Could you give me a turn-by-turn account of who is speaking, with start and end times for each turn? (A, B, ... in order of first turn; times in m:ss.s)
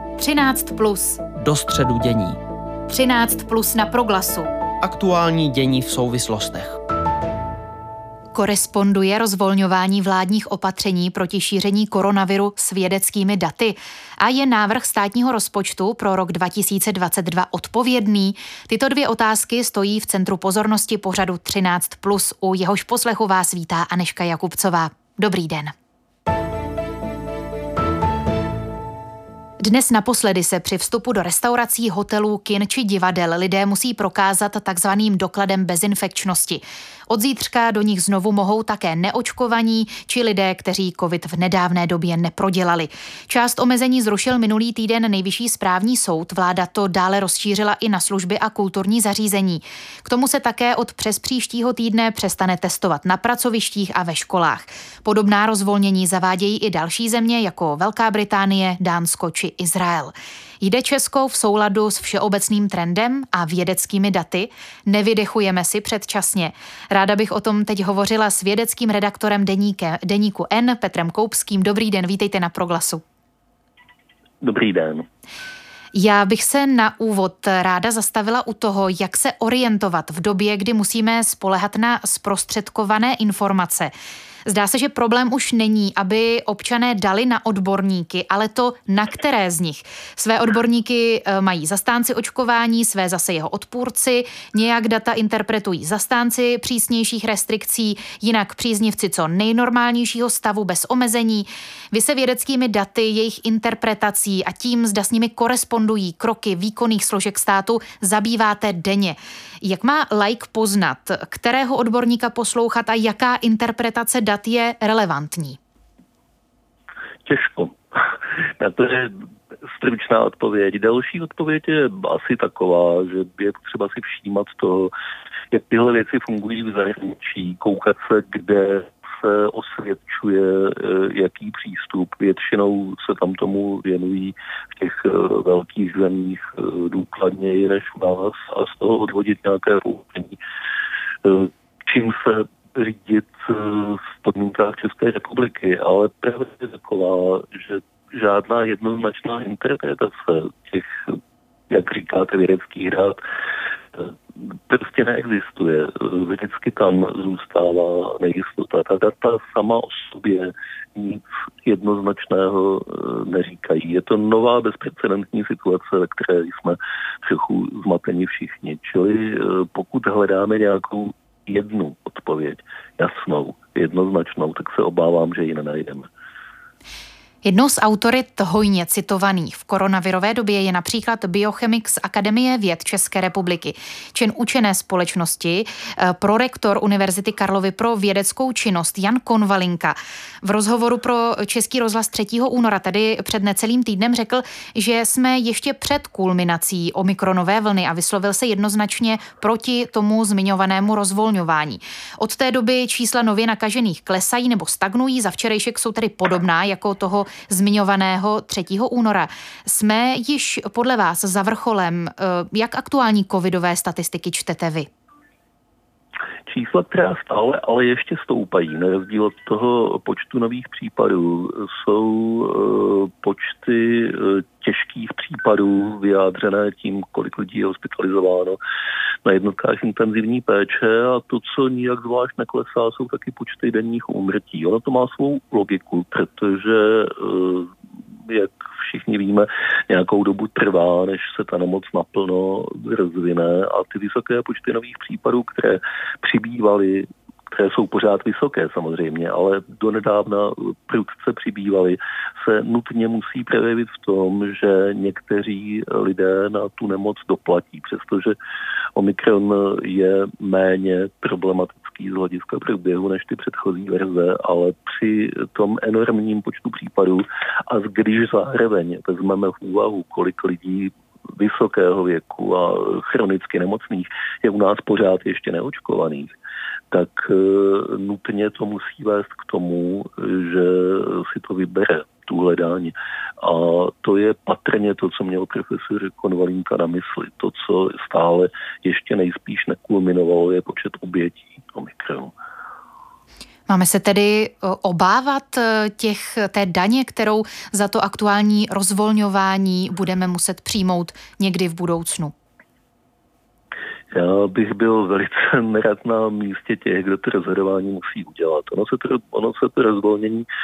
0:00.2-0:01.2 A
0:01.4-0:02.4 B
0:02.9-0:04.5 A
0:04.8-0:06.8 B
0:08.3-0:25.7 A
0:29.6-1:13.0 A
1:14.4-1:15.0 C
1:15.9-1:23.9 A
1:24.4-1:55.6 A
1:57.2-2:04.9 C
2:05.5-2:20.4 C
2:21.2-2:33.2 C
2:33.9-2:56.1 C
2:57.4-3:34.9 A
3:36.5-3:48.6 C
3:49.2-4:18.4 C
4:19.0-4:36.4 C
4:36.9-4:52.3 C
4:53.7-5:02.3 A
5:04.1-5:10.5 C